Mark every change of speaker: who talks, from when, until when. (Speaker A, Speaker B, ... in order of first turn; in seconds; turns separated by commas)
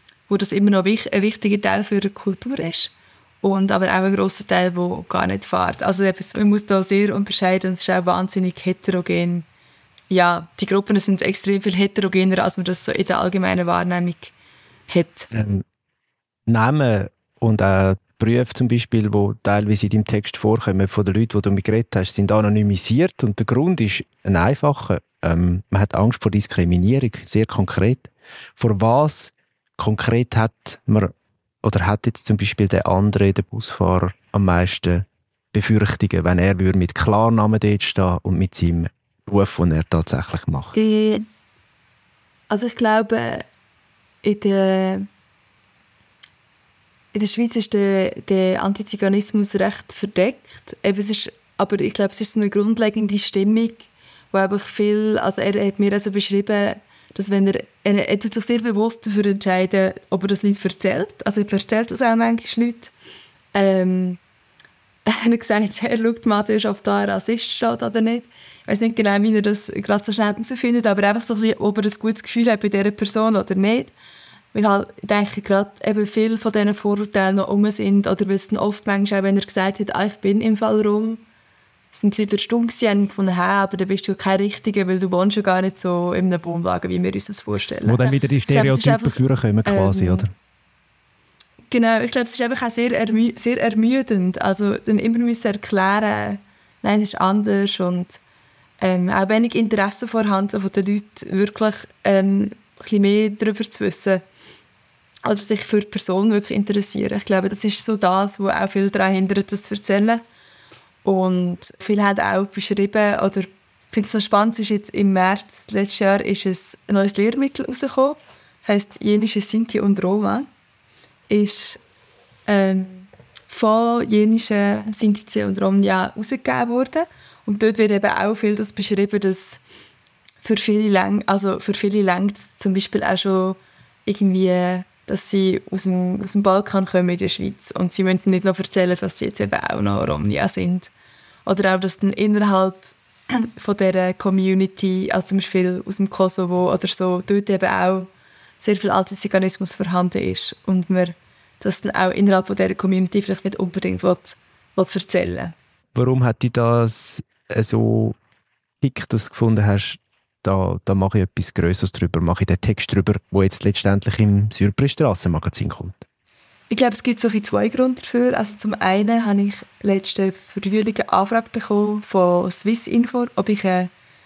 Speaker A: 0.3-9.4, Speaker A: 10.1-14.3, Speaker A: 14.9-15.3, Speaker B: 15.3-15.6, Speaker B: 16.5-31.1, Speaker B: 31.6-40.8, Speaker A: 40.8-41.2, Speaker A: 42.5-43.4, Speaker A: 44.2-45.1, Speaker A: 47.1-62.9, Speaker A: 63.5-64.2, Speaker A: 65.0-73.9, Speaker A: 74.5-81.2, Speaker A: 81.9-90.3, Speaker B: 87.8-90.3, Speaker A: 91.7-98.2, Speaker A: 98.8-104.2, Speaker A: 105.2-110.2, Speaker A: 111.0-120.5, Speaker A: 121.3-121.8, Speaker A: 122.5-129.6, Speaker A: 130.4-140.9, Speaker A: 141.4-155.5, Speaker B: 155.9-158.2, Speaker B: 158.8-166.0, Speaker A: 166.7-173.9